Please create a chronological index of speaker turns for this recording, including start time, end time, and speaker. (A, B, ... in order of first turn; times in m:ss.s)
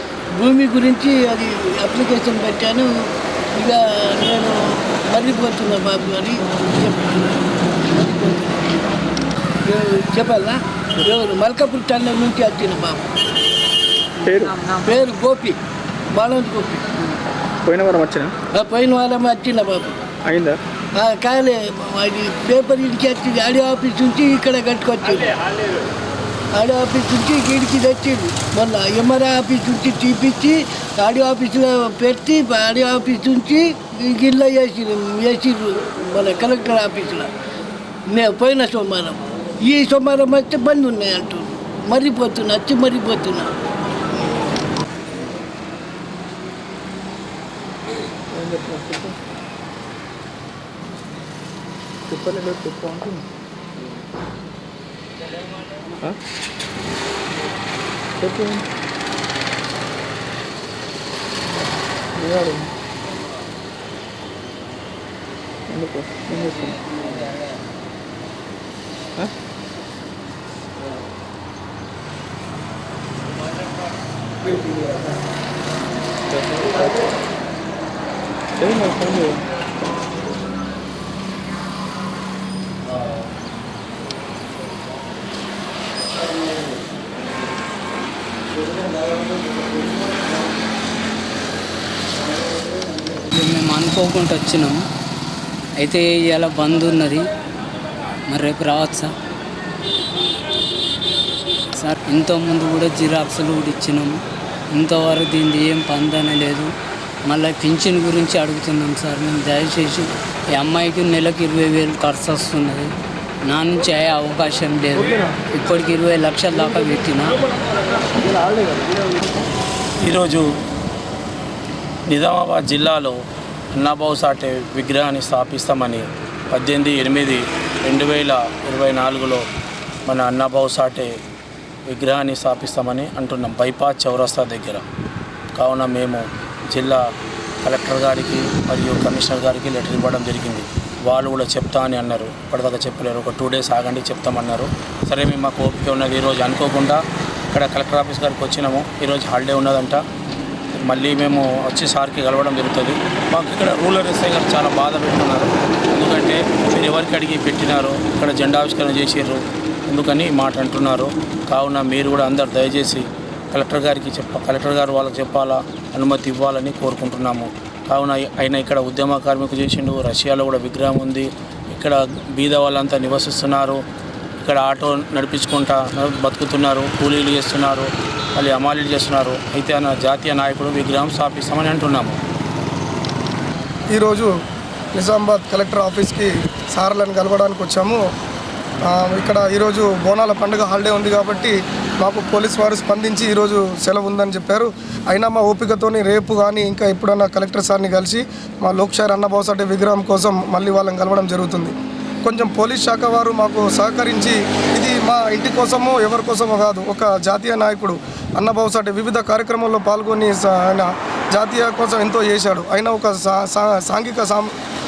0:00.3-0:02.9 A
0:03.5-0:07.4 A
0:07.9-0:08.9 A
0:09.6-0:13.1 A
0:14.2-0:14.6 B
0:14.7-0:15.6 A
0:16.1-0:16.9 A
0:17.6-0:18.3 B
0:18.5-0:20.0 A
0:20.2-0:20.6 B
0:20.9-0:25.6 A
0:26.5-0:37.3 A
0:38.1-0:43.5 A
0:48.3-0:49.2 B
0:52.1-0:53.3 B
0:58.2-0:58.7 B
1:01.5-1:02.7 B
1:05.7-1:07.1 B
1:16.3-1:16.9 B
1:18.6-1:19.5 B
1:33.2-1:34.8 C
1:35.8-1:37.3 C
1:38.3-1:39.1 C
1:41.7-1:44.2 C
1:44.7-1:46.7 C
1:47.2-1:52.9 C
1:53.5-1:57.5 C
2:00.0-2:00.4 D
2:02.1-2:03.2 D
2:03.7-2:09.4 D
2:10.0-2:11.1 D
2:11.9-2:14.8 D
2:15.5-2:17.0 D
2:17.6-2:27.0 D
2:27.5-2:30.0 D
2:30.8-2:53.8 D
2:54.4-3:02.2 D
3:03.9-3:04.3 E
3:04.9-3:08.0 E
3:08.8-3:34.5 E